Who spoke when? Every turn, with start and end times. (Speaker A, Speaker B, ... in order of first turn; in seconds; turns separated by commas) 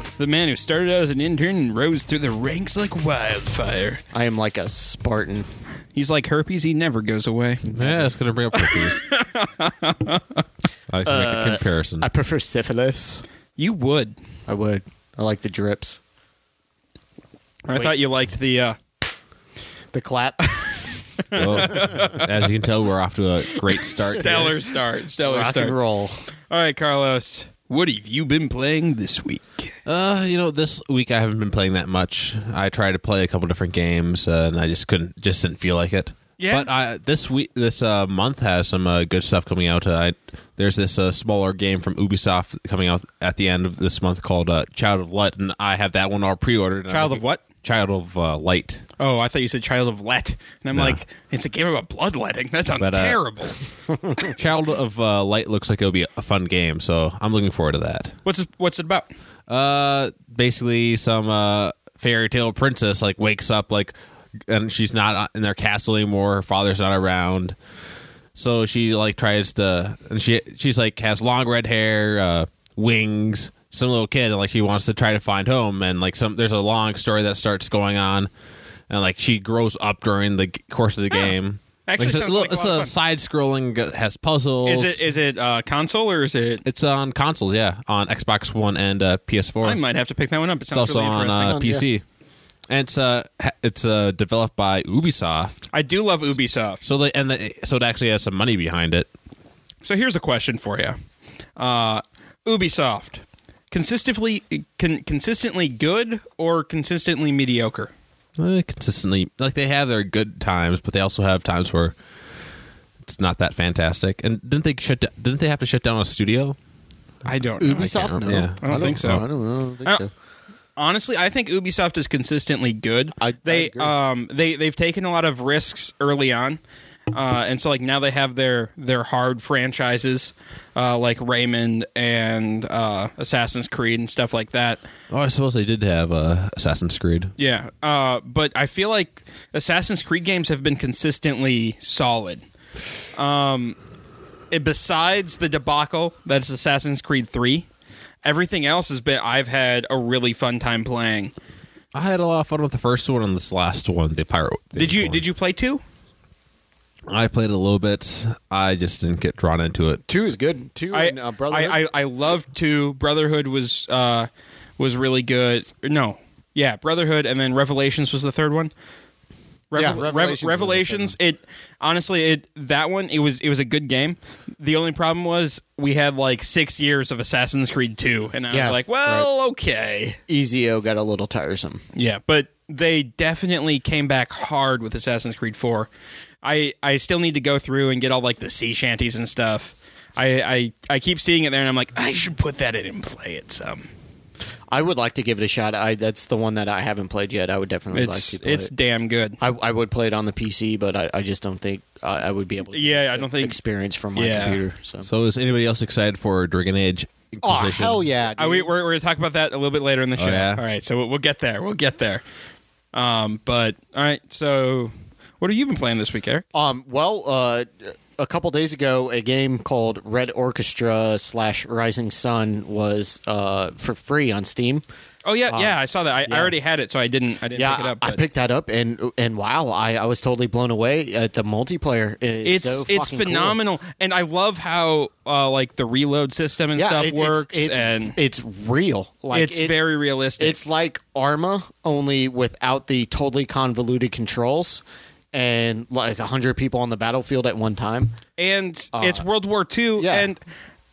Speaker A: 0.2-4.0, Speaker B: 4.1-5.5, Speaker A: 5.9-7.7, Speaker B: 7.6-8.1, Speaker C: 7.7-9.1, Speaker A: 8.5-10.4, Speaker C: 10.9-12.1, Speaker B: 11.0-13.2, Speaker A: 13.6-14.2, Speaker B: 14.5-16.0, Speaker A: 17.6-18.8, Speaker B: 19.9-22.1, Speaker A: 21.3-22.3, Speaker C: 21.4-24.6, Speaker A: 23.7-25.8, Speaker B: 25.2-26.2, Speaker A: 26.5-29.7, Speaker C: 29.9-48.8, Speaker A: 36.4-36.7, Speaker A: 46.9-47.4, Speaker A: 49.0-53.6, Speaker C: 50.7-51.0, Speaker C: 52.8-53.2, Speaker C: 54.2-58.1, Speaker A: 58.2-59.1, Speaker C: 59.5-63.9, Speaker C: 64.5-67.5, Speaker C: 68.3-78.3, Speaker C: 78.9-85.0, Speaker A: 81.8-82.9, Speaker A: 84.6-86.6, Speaker C: 86.6-89.8, Speaker A: 89.6-91.6, Speaker C: 90.7-92.0, Speaker B: 91.4-91.8, Speaker C: 92.7-95.7, Speaker A: 95.7-96.8, Speaker C: 96.8-99.1, Speaker A: 99.8-101.0, Speaker A: 101.6-107.9, Speaker C: 108.4-111.9, Speaker C: 113.0-116.5, Speaker A: 117.2-119.2, Speaker B: 117.6-120.1, Speaker C: 117.8-119.2, Speaker A: 120.8-126.6, Speaker B: 123.2-123.9, Speaker A: 127.1-134.8, Speaker C: 135.1-137.3, Speaker A: 137.4-142.4, Speaker A: 143.2-143.8, Speaker A: 144.5-147.7, Speaker A: 148.2-151.3, Speaker C: 151.9-155.2, Speaker A: 154.8-155.8, Speaker C: 157.1-160.0, Speaker B: 160.1-161.8, Speaker A: 160.9-168.7, Speaker A: 169.7-180.2, Speaker B: 169.7-171.1, Speaker B: 178.5-179.3, Speaker B: 180.3-181.8, Speaker A: 181.9-185.9, Speaker A: 186.4-193.9, Speaker B: 194.7-198.7, Speaker A: 197.9-199.4, Speaker B: 199.4-205.1, Speaker A: 202.7-203.6, Speaker A: 204.2-204.6, Speaker C: 205.0-208.0, Speaker B: 207.4-208.7, Speaker A: 208.4-212.2, Speaker C: 210.2-210.6, Speaker A: 212.9-216.4, Speaker B: 216.5-224.8, Speaker A: 225.2-228.2, Speaker B: 225.5-226.5, Speaker B: 227.5-233.6, Speaker A: 232.4-238.2, Speaker B: 236.8-239.8, Speaker A: 239.3-240.6, Speaker B: 240.4-248.2, Speaker A: 248.4-250.4, Speaker B: 248.9-249.2, Speaker B: 250.0-250.3